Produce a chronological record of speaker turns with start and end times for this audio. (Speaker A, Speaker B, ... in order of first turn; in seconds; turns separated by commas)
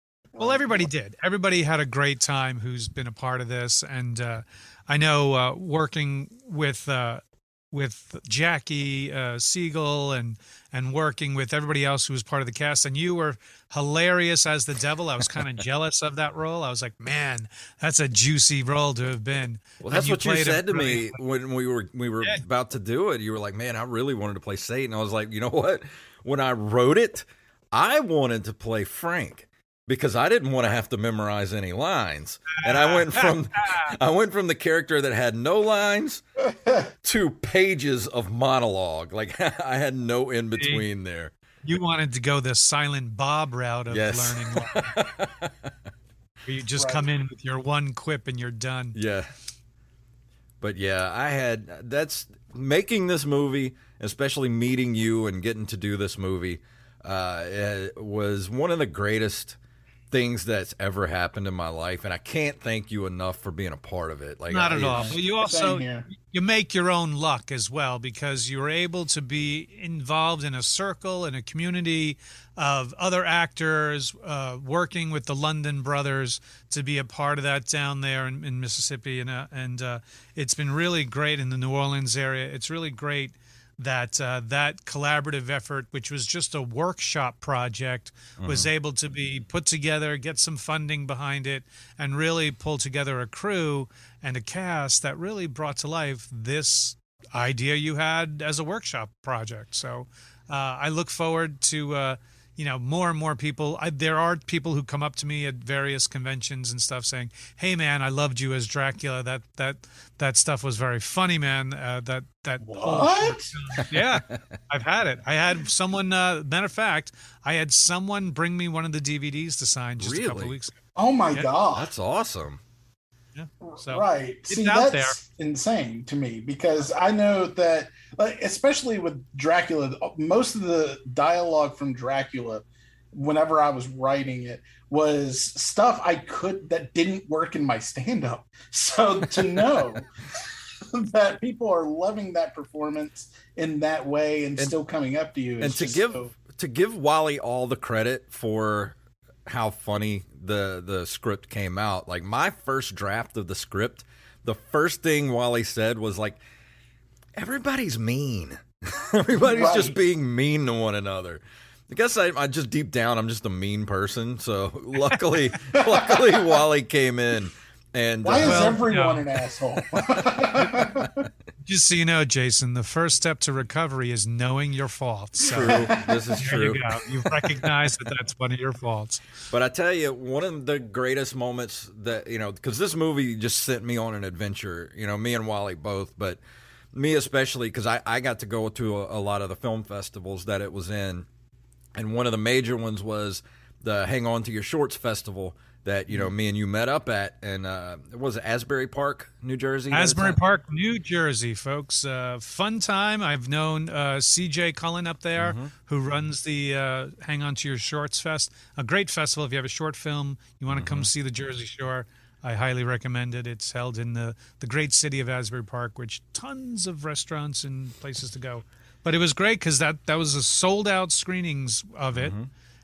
Speaker A: 0.3-0.9, Speaker B: 0.4-21.2, Speaker C: 19.8-36.2, Speaker B: 32.6-33.9, Speaker C: 37.0-41.3, Speaker B: 40.6-40.9, Speaker B: 41.6-45.0, Speaker C: 43.9-45.7, Speaker B: 46.5-49.0, Speaker A: 46.8-47.1, Speaker C: 48.9-49.3, Speaker C: 50.6-59.6, Speaker C: 60.1-65.2, Speaker B: 64.5-120.8, Speaker A: 64.9-66.1, Speaker C: 88.4-88.7, Speaker A: 112.6-113.5, Speaker C: 114.0-114.6, Speaker C: 120.0-120.5, Speaker A: 121.0-121.9, Speaker C: 121.7-122.6, Speaker B: 123.3-125.2, Speaker A: 123.6-146.3, Speaker C: 145.6-156.4, Speaker C: 157.4-168.8, Speaker A: 159.4-160.0, Speaker A: 165.7-166.5, Speaker A: 168.2-171.3, Speaker B: 168.4-169.2, Speaker B: 171.6-175.9, Speaker C: 175.4-177.7, Speaker B: 176.4-179.2, Speaker C: 179.5-186.4, Speaker C: 186.9-191.3, Speaker C: 191.9-200.4, Speaker B: 199.9-222.3, Speaker C: 205.4-205.7, Speaker C: 210.7-211.1, Speaker C: 222.1-222.5